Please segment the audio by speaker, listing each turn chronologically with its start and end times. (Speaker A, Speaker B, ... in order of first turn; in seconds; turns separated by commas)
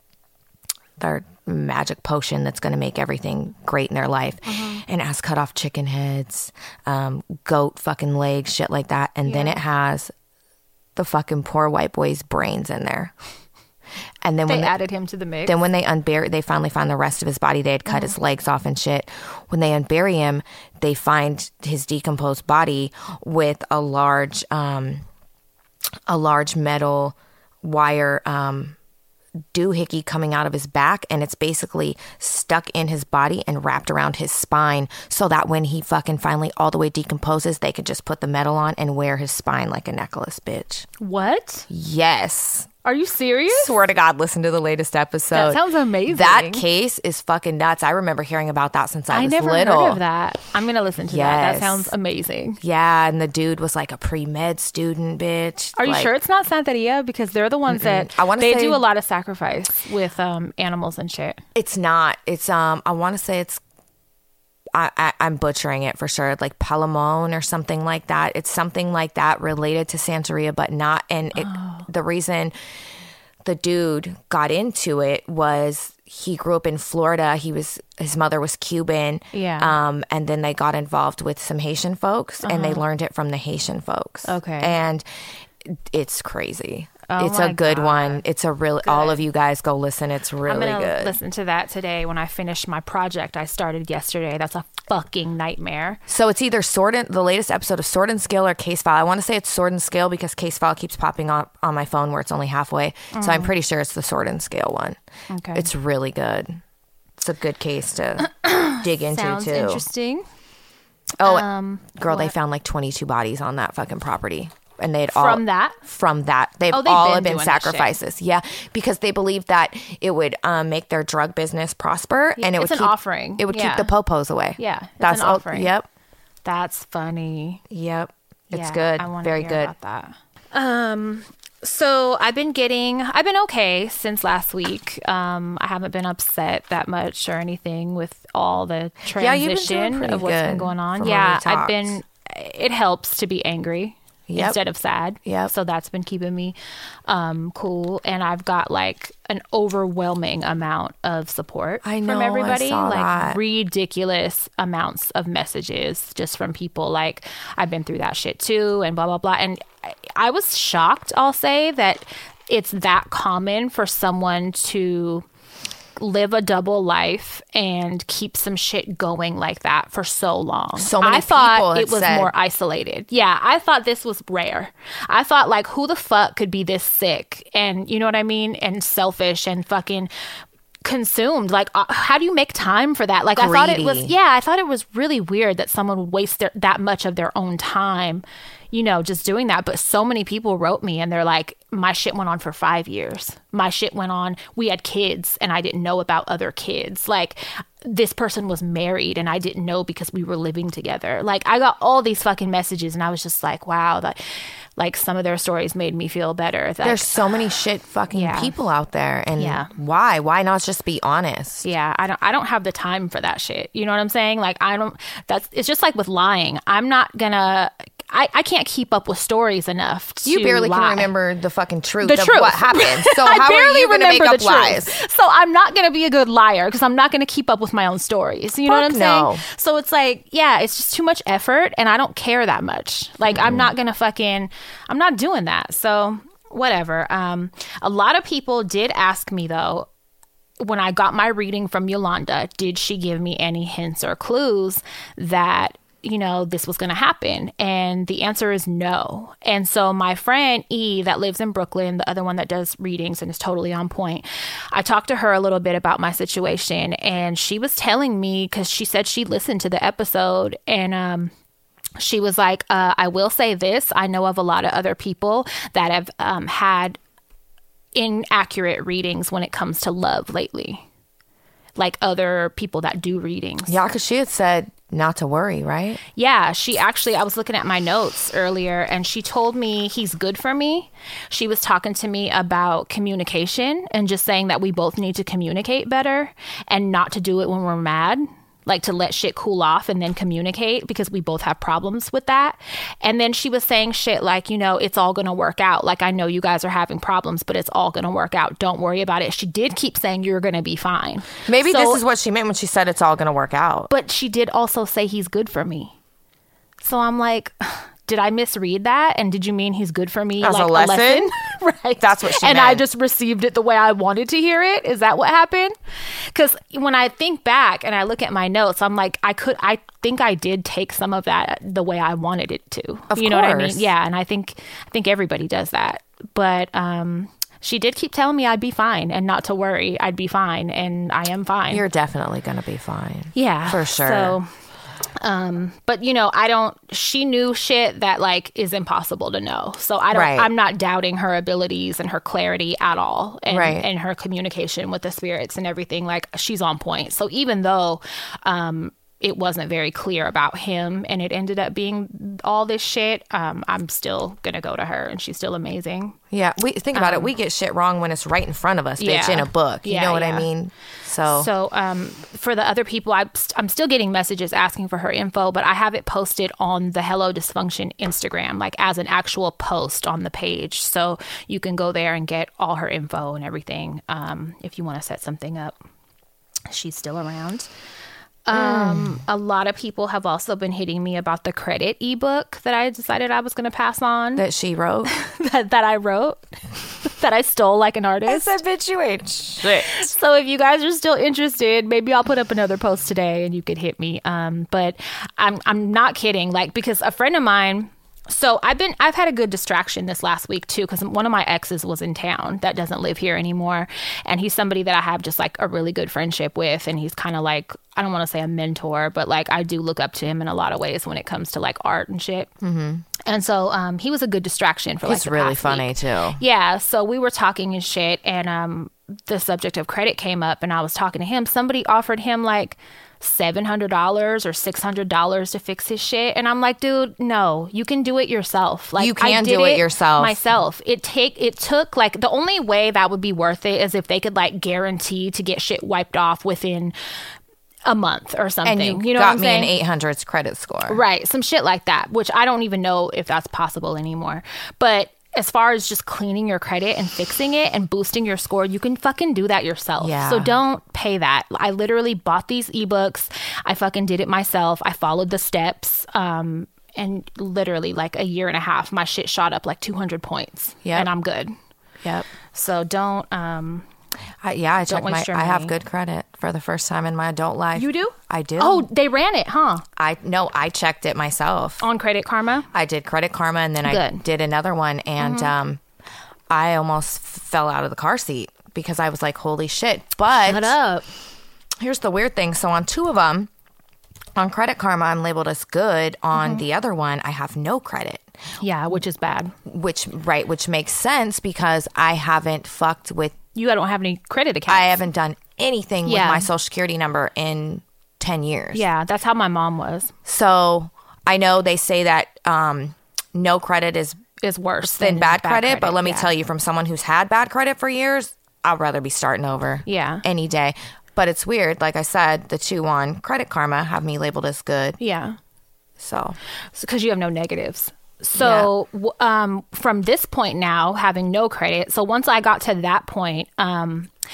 Speaker A: 1.0-10.1, Speaker B: 4.5-4.8, Speaker B: 9.2-9.6, Speaker A: 10.9-13.1, Speaker A: 14.2-14.7, Speaker B: 14.5-15.6, Speaker A: 15.4-25.0, Speaker B: 17.9-18.1, Speaker A: 26.1-28.8, Speaker A: 29.5-40.9, Speaker B: 41.0-41.7, Speaker A: 41.7-42.7, Speaker B: 42.8-43.8, Speaker A: 43.5-50.0, Speaker B: 45.3-46.6, Speaker B: 49.1-52.6, Speaker A: 51.1-51.9, Speaker A: 52.6-56.1, Speaker B: 55.8-61.4, Speaker A: 57.7-58.8, Speaker A: 61.5-63.6, Speaker A: 64.7-72.5, Speaker B: 71.3-71.9, Speaker A: 73.4-85.0, Speaker B: 79.3-79.7, Speaker B: 82.4-82.8, Speaker B: 84.2-84.8, Speaker A: 85.6-91.2, Speaker B: 87.1-88.2, Speaker B: 88.8-89.2, Speaker B: 90.5-96.0, Speaker A: 96.1-105.0, Speaker B: 103.1-103.5, Speaker B: 105.3-105.7, Speaker A: 105.5-106.6, Speaker A: 107.2-109.8, Speaker B: 108.3-110.2, Speaker A: 111.2-125.9, Speaker B: 111.2-112.3, Speaker B: 115.1-115.8, Speaker B: 116.7-118.0, Speaker B: 122.4-123.9, Speaker B: 124.6-125.7, Speaker B: 126.5-127.6, Speaker A: 127.7-129.7, Speaker B: 128.5-146.6, Speaker A: 139.1-142.0, Speaker A: 144.3-144.6, Speaker A: 145.2-145.5, Speaker B: 147.1-165.2, Speaker A: 151.8-153.4, Speaker B: 166.0-180.1, Speaker A: 170.8-172.3, Speaker B: 180.8-204.2, Speaker A: 183.4-184.1, Speaker B: 204.8-207.3, Speaker A: 206.8-211.6, Speaker B: 208.1-208.5, Speaker B: 209.4-209.7, Speaker B: 211.6-221.1, Speaker A: 220.2-224.9, Speaker B: 222.0-239.9, Speaker A: 228.7-229.4, Speaker A: 233.3-233.7, Speaker B: 240.6-261.3, Speaker B: 262.0-267.0, Speaker B: 267.9-270.8, Speaker B: 271.8-273.8, Speaker A: 273.7-276.0, Speaker B: 276.2-302.0, Speaker A: 301.4-303.9, Speaker B: 303.9-305.9, Speaker B: 306.8-315.7, Speaker A: 310.4-311.3, Speaker A: 312.0-312.8, Speaker B: 316.3-331.8, Speaker A: 323.1-323.9, Speaker A: 331.7-334.4, Speaker B: 333.4-334.5, Speaker B: 335.2-356.2, Speaker A: 340.1-340.5, Speaker A: 343.5-343.9, Speaker A: 356.3-361.5, Speaker B: 356.9-357.3, Speaker B: 359.0-360.5, Speaker B: 361.3-375.8, Speaker B: 376.7-377.7, Speaker B: 378.5-384.4, Speaker A: 378.5-379.2, Speaker A: 384.4-385.1, Speaker B: 385.1-388.6, Speaker A: 388.3-390.0, Speaker B: 389.8-412.5, Speaker A: 412.6-413.1, Speaker B: 413.2-436.9, Speaker A: 415.1-416.4, Speaker A: 429.0-430.4, Speaker B: 437.9-439.7, Speaker A: 438.6-441.0, Speaker B: 440.9-461.5, Speaker A: 450.0-450.6, Speaker A: 462.0-462.3, Speaker B: 462.5-463.9, Speaker A: 464.4-468.9, Speaker B: 464.9-465.7, Speaker B: 467.8-469.9, Speaker A: 470.0-471.8, Speaker B: 471.8-472.7, Speaker A: 472.7-475.8, Speaker B: 473.8-474.2, Speaker B: 475.2-475.5, Speaker A: 476.5-480.8, Speaker B: 480.4-481.1, Speaker A: 481.8-483.5, Speaker A: 484.4-488.3, Speaker B: 486.3-486.6, Speaker B: 488.6-489.5, Speaker A: 489.7-493.4, Speaker B: 493.6-495.0, Speaker A: 494.7-498.9, Speaker B: 496.1-496.5, Speaker B: 498.7-500.1, Speaker A: 500.2-504.2, Speaker B: 504.4-506.3, Speaker A: 504.8-515.0, Speaker B: 509.9-510.2, Speaker B: 515.0-515.4, Speaker A: 516.0-516.4, Speaker B: 516.8-524.1, Speaker A: 518.4-518.7